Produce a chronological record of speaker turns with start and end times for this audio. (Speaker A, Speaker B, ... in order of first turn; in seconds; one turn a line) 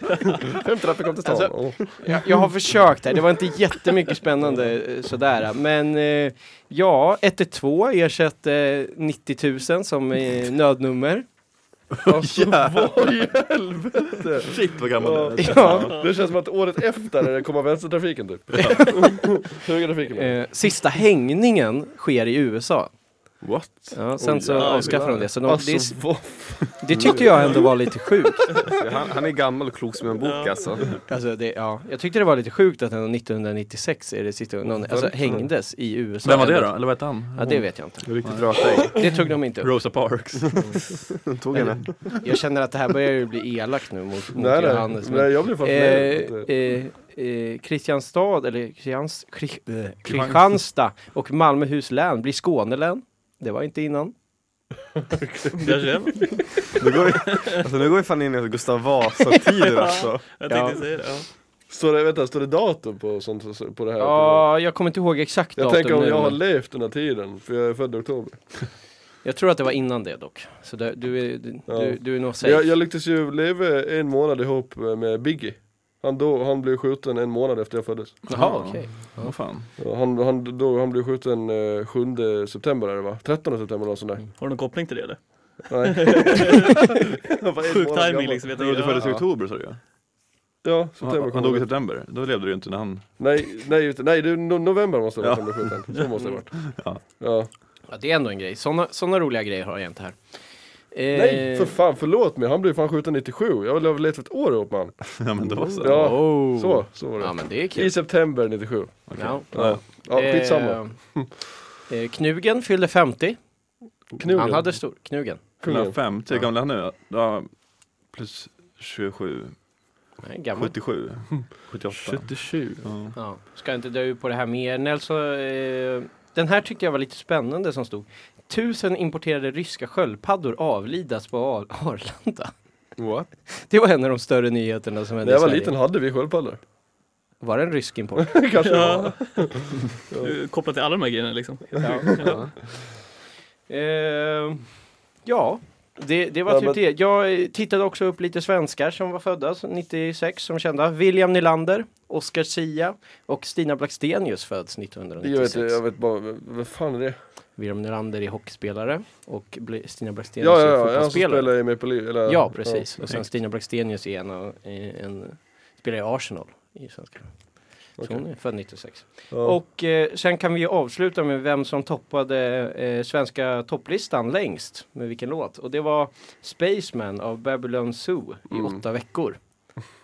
Speaker A: 0.4-2.0
Speaker B: 1.2-11.2
Speaker C: 12.0-13.1
Speaker A: 12.1-20.4
Speaker C: 14.2-16.0
Speaker B: 15.4-16.0
Speaker C: 18.5-18.9
Speaker B: 18.5-19.3
Speaker B: 20.1-22.9
Speaker C: 23.4-24.1
Speaker B: 23.9-28.6
Speaker A: 24.2-27.9
Speaker D: 24.6-25.0
Speaker E: 26.9-27.5
Speaker E: 28.7-30.9
Speaker D: 30.2-30.7
Speaker B: 31.1-39.8
Speaker A: 34.8-35.5
Speaker C: 36.2-40.8
Speaker E: 41.2-42.2
Speaker C: 41.5-42.2
Speaker B: 42.2-54.1
Speaker A: 44.3-46.5
Speaker C: 50.0-50.6
Speaker A: 55.0-56.5
Speaker D: 55.6-56.5
Speaker E: 56.8-60.2
Speaker D: 57.3-57.6
Speaker D: 59.5-61.3
Speaker B: 60.5-61.0
Speaker A: 61.7-64.5
Speaker B: 64.0-66.4
Speaker A: 65.6-68.5
Speaker B: 69.2-72.7
Speaker A: 71.7-78.3
Speaker B: 78.3-79.4
Speaker C: 78.3-79.7
Speaker A: 79.8-84.3
Speaker D: 84.4-86.9
Speaker A: 85.7-88.5
Speaker D: 87.7-89.2
Speaker C: 88.5-89.8
Speaker A: 90.6-91.7
Speaker C: 91.0-93.1
Speaker A: 93.2-96.6
Speaker C: 95.2-97.1
Speaker B: 96.2-96.4
Speaker A: 97.2-97.5
Speaker B: 97.9-100.2
Speaker B: 100.9-101.8
Speaker A: 101.1-105.0
Speaker C: 105.0-106.2
Speaker B: 105.7-108.0
Speaker A: 105.8-111.3
Speaker C: 109.1-109.8
Speaker B: 109.2-113.4
Speaker A: 114.2-114.8
Speaker B: 114.3-115.4
Speaker A: 115.6-116.3
Speaker C: 115.6-117.5
Speaker C: 118.0-119.5
Speaker B: 120.2-120.7
Speaker C: 120.5-122.3
Speaker A: 121.3-122.8
Speaker C: 122.8-123.1
Speaker B: 123.1-132.5
Speaker E: 133.0-133.3
Speaker B: 133.4-135.7
Speaker A: 135.2-136.6
Speaker B: 137.4-138.4
Speaker A: 138.2-140.3
Speaker D: 138.6-142.3
Speaker B: 141.8-142.3
Speaker A: 141.9-142.4
Speaker E: 142.2-142.5
Speaker B: 143.7-144.6
Speaker B: 145.2-155.8
Speaker A: 146.5-146.8
Speaker A: 155.2-157.2
Speaker B: 157.6-179.4
Speaker A: 160.4-163.1
Speaker A: 168.0-168.3
Speaker A: 169.3-169.6
Speaker A: 178.5-178.8